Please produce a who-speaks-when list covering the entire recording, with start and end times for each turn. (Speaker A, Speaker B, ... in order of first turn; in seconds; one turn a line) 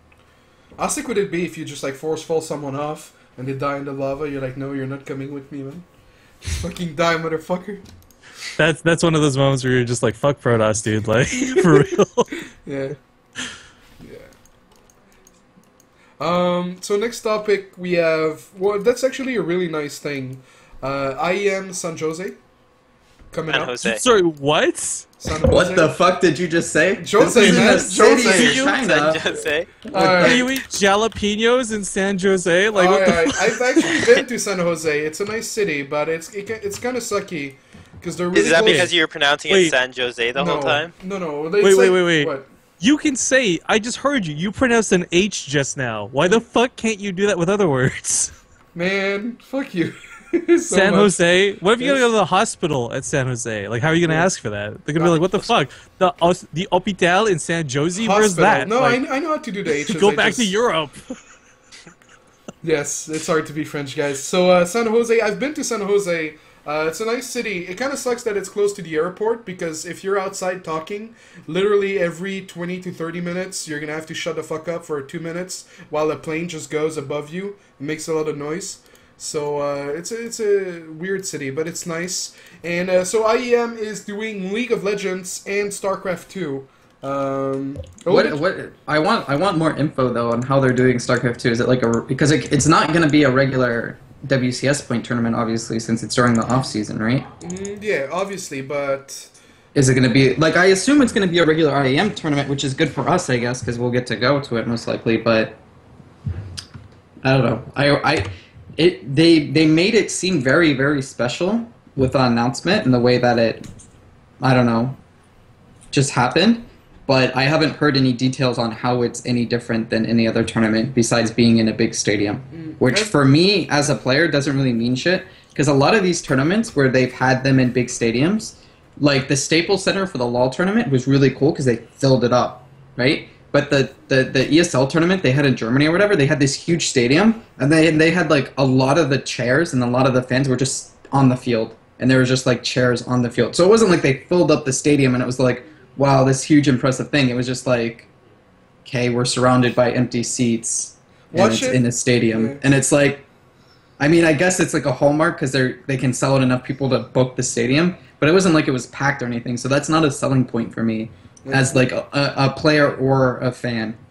Speaker A: 0.8-5.8
Speaker A: 6.4-7.8
Speaker B: 8.6-12.4
Speaker A: 11.3-13.0
Speaker A: 14.0-14.3
Speaker A: 16.2-22.4
Speaker A: 23.3-23.9
Speaker C: 23.5-24.0
Speaker B: 23.8-25.1
Speaker A: 25.2-25.9
Speaker D: 25.4-29.2
Speaker A: 27.0-28.7
Speaker B: 27.3-28.8
Speaker C: 28.5-30.4
Speaker A: 29.9-30.4
Speaker B: 29.9-34.0
Speaker A: 32.7-38.9
Speaker C: 38.3-40.9
Speaker B: 38.6-38.9
Speaker B: 39.5-39.7
Speaker A: 40.4-42.5
Speaker B: 41.6-48.3
Speaker A: 48.7-51.2
Speaker B: 50.7-59.0
Speaker A: 51.8-52.1
Speaker A: 55.0-55.5
Speaker A: 58.0-60.5
Speaker B: 59.9-61.0
Speaker A: 62.6-88.4
Speaker D: 88.1-97.3
Speaker A: 97.4-99.3
Speaker D: 99.7-105.6
Speaker D: 107.2-113.7
Speaker D: 114.4-115.0
Speaker D: 115.9-148.1
Speaker A: 122.5-123.2
Speaker D: 148.8-153.3
Speaker A: 151.3-152.6
Speaker D: 154.0-164.0
Speaker A: 161.4-161.9